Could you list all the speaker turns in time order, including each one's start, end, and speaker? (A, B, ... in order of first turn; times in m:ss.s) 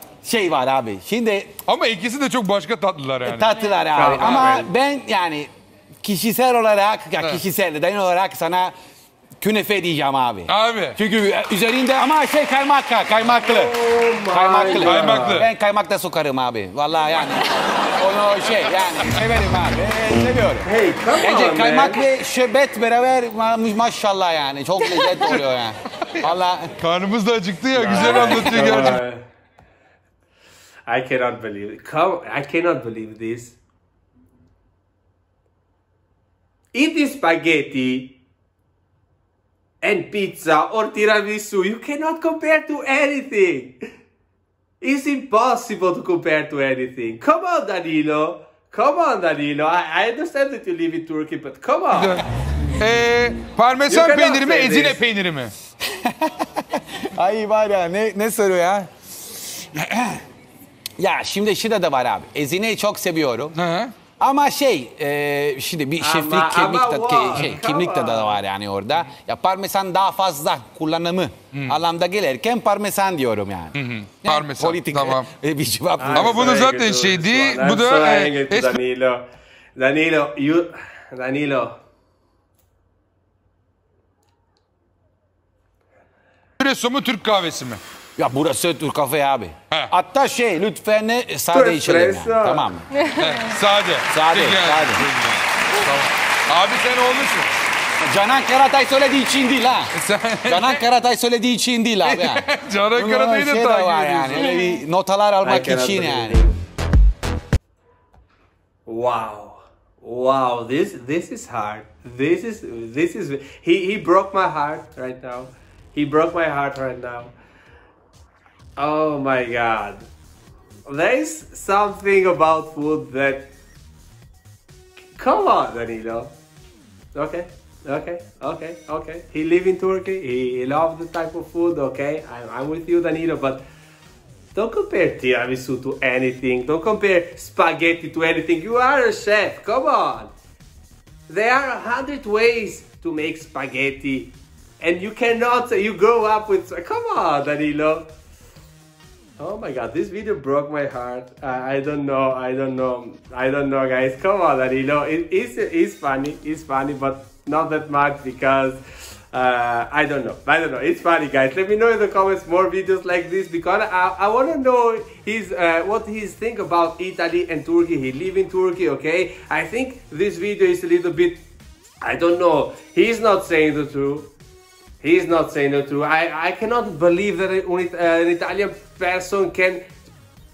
0:00.2-0:01.6 A
0:01.6-0:03.5 B
0:03.2-0:05.5 A
0:03.9-0:04.7 C
0:06.0-0:08.7 A
0:09.4-0:13.7 A
0:10.5-0:11.0 B
0:13.3-0:15.4 C
0:14.3-0:20.7 A
0:14.8-0:15.5 B
0:20.6-0:22.0 C
0:21.2-0:26.7 A
0:25.0-0:25.4 B
0:26.8-0:29.0 B
0:27.7-0:29.2 C
0:28.0-0:28.3 A
0:30.9-0:33.6 C
0:36.7-0:38.2 C
0:39.8-0:43.8 C
0:44.8-0:52.2 C
0:51.9-0:52.2 B
0:52.8-0:55.5 B
0:53.9-0:55.0 C
0:55.8-1:00.2 A
1:01.0-1:03.6 A
1:03.5-1:03.9 B
1:04.2-1:16.6 A
1:06.0-1:08.4 C
1:13.7-1:15.3 B
1:16.0-1:19.2 C
1:16.1-1:18.8 B
1:19.8-1:21.7 C
1:26.6-1:27.8 B
1:28.2-1:32.9 A
1:31.5-1:32.7 C
1:33.1-1:37.5 B
1:34.1-1:35.0 A
1:38.0-1:39.9 A
1:39.9-1:40.8 B
1:40.4-1:46.4 A
1:42.0-1:44.6 B
1:45.4-1:46.6 C
1:48.8-1:57.3 C
1:58.8-2:00.1 C
2:00.8-2:03.5 C
2:05.1-2:06.3 C
2:07.1-2:13.6 C
2:14.5-2:20.3 C
2:21.3-2:28.1 C
2:29.4-2:51.4 C
2:52.0-2:54.3 C
2:55.0-2:59.9 C